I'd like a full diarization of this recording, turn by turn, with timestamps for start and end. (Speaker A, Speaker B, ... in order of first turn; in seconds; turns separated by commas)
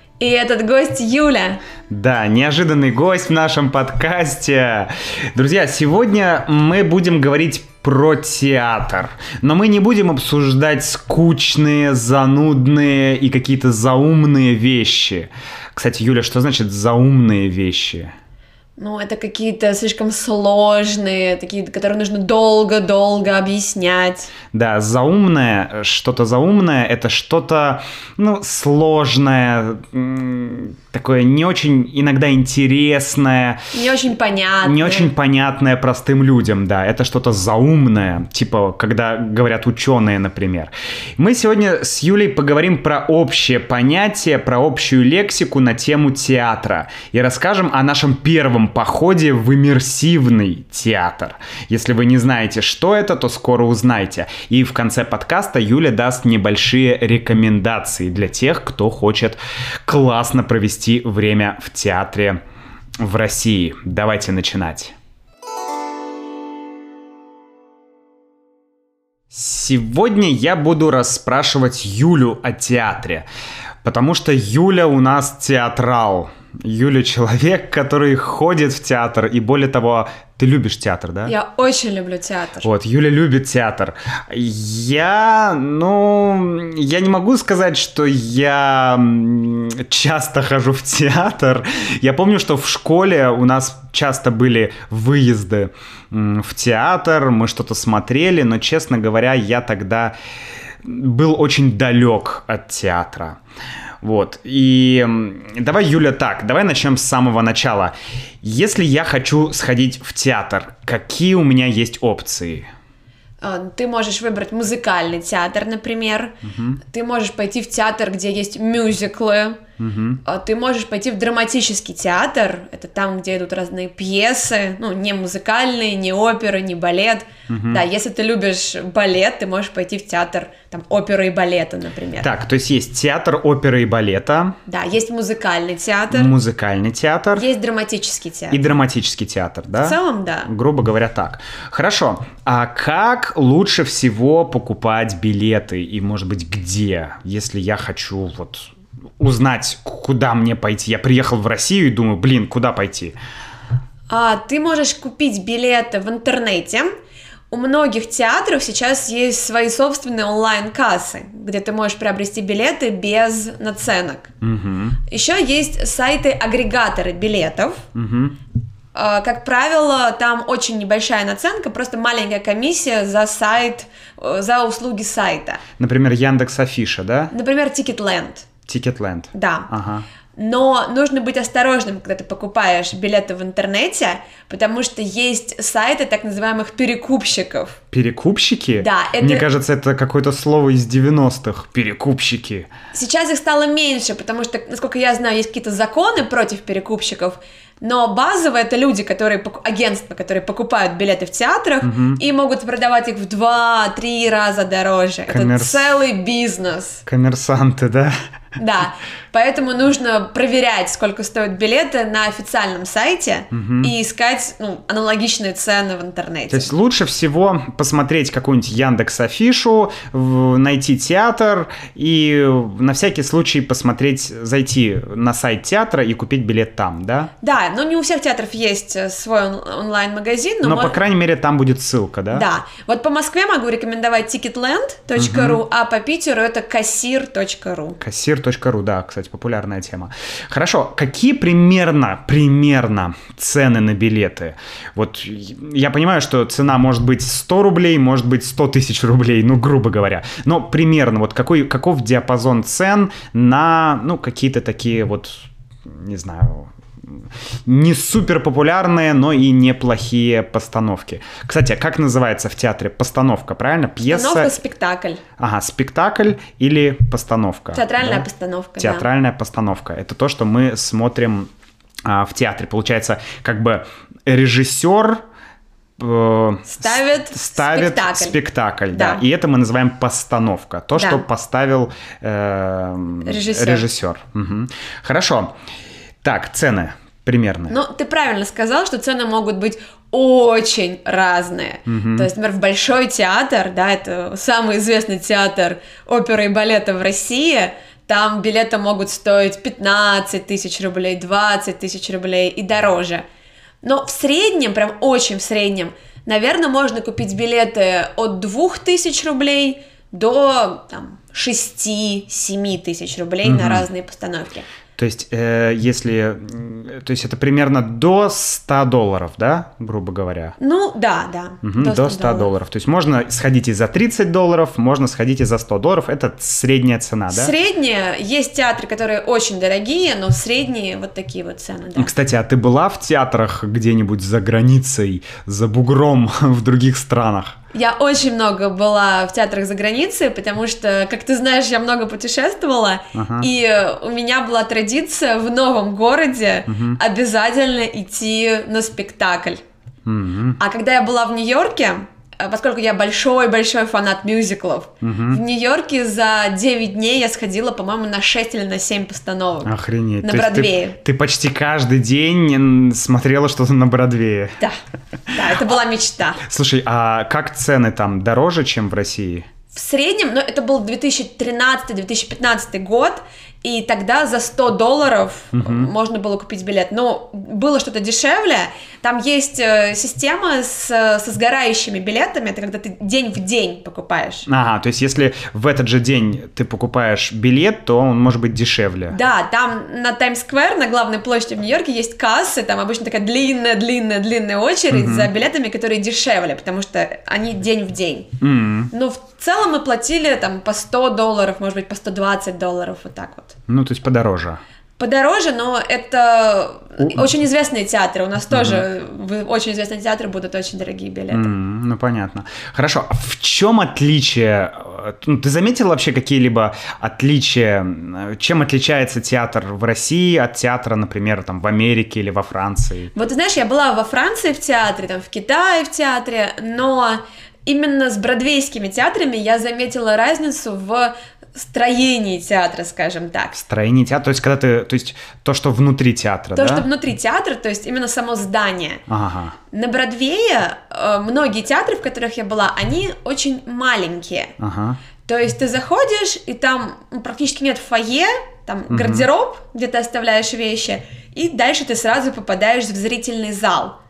Speaker A: 0.2-1.6, Speaker B: 1.9-18.1, Speaker A: 18.8-24.3, Speaker B: 24.5-33.6, Speaker A: 33.7-35.1, Speaker B: 34.6-62.4, Speaker B: 63.0-65.0, Speaker B: 69.3-73.3, Speaker B: 73.8-81.3, Speaker A: 81.3-82.7, Speaker B: 82.6-100.2, Speaker B: 100.8-103.4, Speaker B: 104.0-112.7, Speaker A: 113.4-119.6, Speaker B: 116.5-116.8, Speaker B: 119.8-120.2, Speaker A: 120.2-132.3, Speaker B: 127.5-127.8, Speaker B: 132.2-134.6, Speaker A: 134.7-136.3, Speaker B: 136.1-137.5, Speaker A: 137.3-138.6, Speaker B: 138.5-153.2, Speaker A: 139.8-140.5, Speaker A: 154.1-156.9, Speaker A: 157.5-164.3, Speaker B: 164.4-165.0, Speaker A: 165.1-167.8, Speaker B: 167.9-168.4, Speaker A: 168.9-175.6, Speaker B: 175.8-177.3, Speaker A: 177.3-178.5, Speaker B: 178.7-180.1, Speaker A: 179.3-179.7, Speaker A: 180.4-187.8, Speaker B: 187.9-192.7, Speaker A: 188.8-189.5, Speaker A: 192.9-207.0, Speaker B: 201.8-202.2, Speaker B: 205.3-205.9, Speaker B: 207.1-208.1, Speaker A: 208.6-216.7, Speaker B: 213.5-213.9, Speaker B: 216.5-227.3, Speaker A: 227.4-231.0, Speaker B: 230.6-232.5, Speaker A: 232.3-238.0, Speaker B: 235.2-235.6, Speaker B: 238.0-264.5, Speaker A: 264.1-265.2, Speaker B: 265.4-268.3, Speaker A: 267.7-269.1, Speaker B: 268.8-271.5, Speaker B: 272.1-275.2, Speaker B: 276.0-285.6, Speaker A: 276.7-278.4, Speaker A: 278.9-279.2, Speaker A: 281.0-281.2, Speaker A: 283.2-283.9, Speaker B: 286.2-287.8, Speaker A: 287.7-303.2, Speaker B: 291.9-292.3, Speaker A: 303.8-314.7, Speaker B: 313.4-313.9, Speaker B: 315.0-320.6, Speaker A: 320.6-322.5, Speaker B: 321.6-327.5, Speaker A: 327.3-332.1, Speaker B: 332.0-337.6, Speaker A: 337.7-349.6, Speaker B: 343.1-343.5, Speaker B: 346.7-347.0, Speaker B: 350.1-350.6, Speaker A: 350.6-361.0, Speaker B: 355.0-355.4, Speaker B: 359.6-364.6, Speaker A: 365.3-366.4, Speaker B: 366.4-369.5, Speaker A: 369.7-384.5, Speaker B: 375.5-375.9, Speaker B: 384.5-389.2, Speaker A: 389.1-398.3, Speaker B: 394.9-395.3, Speaker B: 398.4-398.9, Speaker A: 398.9-403.6, Speaker B: 403.7-404.6, Speaker A: 405.0-411.5, Speaker B: 407.0-407.3, Speaker B: 408.5-408.9, Speaker B: 411.3-423.1, Speaker A: 423.1-433.6, Speaker B: 433.6-436.9, Speaker A: 436.6-439.0, Speaker B: 439.1-439.6, Speaker A: 439.7-444.5, Speaker B: 444.6-445.0, Speaker A: 445.2-454.0, Speaker B: 448.9-449.3